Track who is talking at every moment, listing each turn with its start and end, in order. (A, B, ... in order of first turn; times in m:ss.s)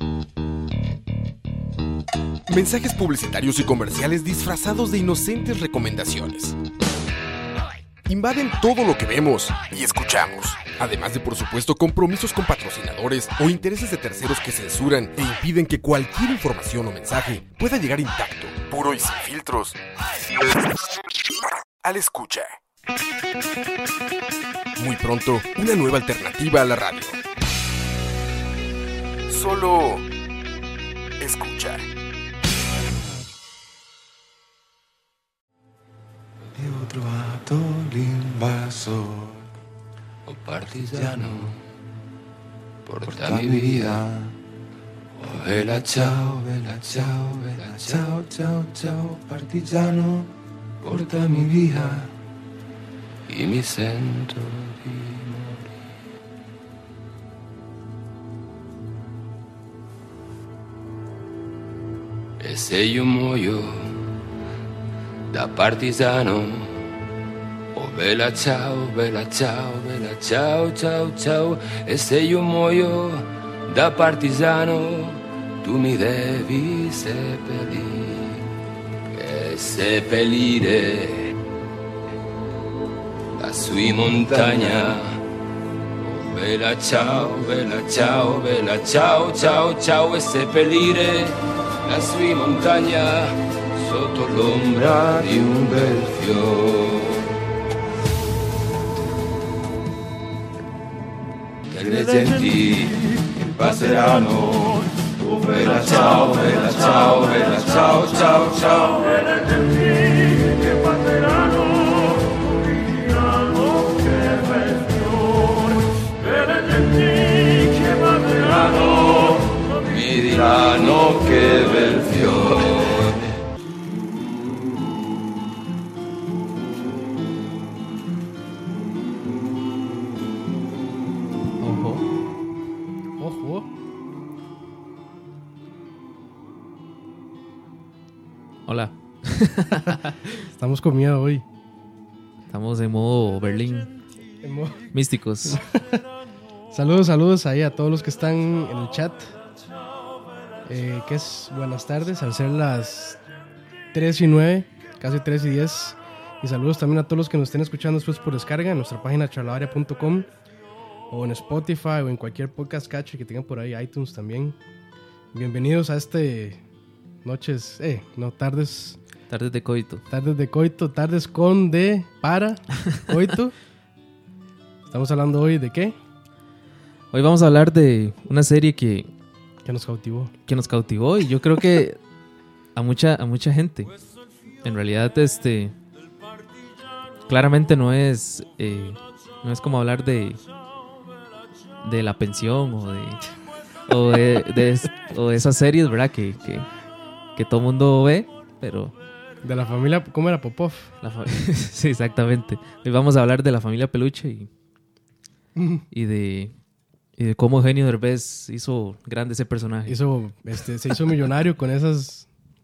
0:02.5-0:06.6 A
0:08.0-0:19.8 A
0:21.8-0:22.5 A
0:24.8-0:27.2 A
0:29.3-0:30.0 A
0:31.2-0:31.9 A
0:36.5-0:39.4 B
0:40.3-0:41.5 C
0:40.8-0:41.6 B
0:42.9-0:44.0 C
0:42.9-0:44.3 B
0:45.2-0:48.2 C
0:46.0-0:50.3 B
0:50.8-0:52.1 B
0:51.0-0:51.8 C
0:53.3-0:55.6 C
1:02.4-1:03.9 C
1:05.3-1:06.8 C
1:07.8-1:18.4 C
1:19.1-1:21.3 C
1:23.4-1:25.2 C
1:26.0-1:37.3 C
1:41.7-1:51.6 C
1:54.0-1:55.4 C
1:56.8-2:03.2 C
2:11.6-2:12.1 D
2:13.2-2:13.7 E
2:18.7-2:20.3 D
2:20.5-2:21.4 E
2:22.5-2:23.9 D
2:24.4-2:24.8 E
2:24.9-2:25.6 D
2:25.4-2:26.0 E
2:26.7-2:29.3 E
2:30.6-2:33.2 E
2:33.9-2:40.3 E
2:41.1-2:44.6 E
2:45.3-2:46.6 E
2:47.2-2:49.0 E
2:49.3-2:50.0 D
2:50.1-2:53.5 E
2:54.9-2:56.0 E
2:57.1-2:59.1 D
2:59.6-3:00.3 E
3:00.5-3:02.0 D
3:02.8-3:03.9 D
3:04.6-3:05.8 D
3:07.3-3:10.4 D
3:11.8-3:13.2 D
3:13.9-3:16.7 D
3:17.3-3:18.9 D
3:19.4-3:20.9 E
3:21.0-3:24.5 D
3:25.6-3:25.8 E
3:25.9-3:26.5 D
3:27.2-3:30.0 D
3:29.9-3:32.3 E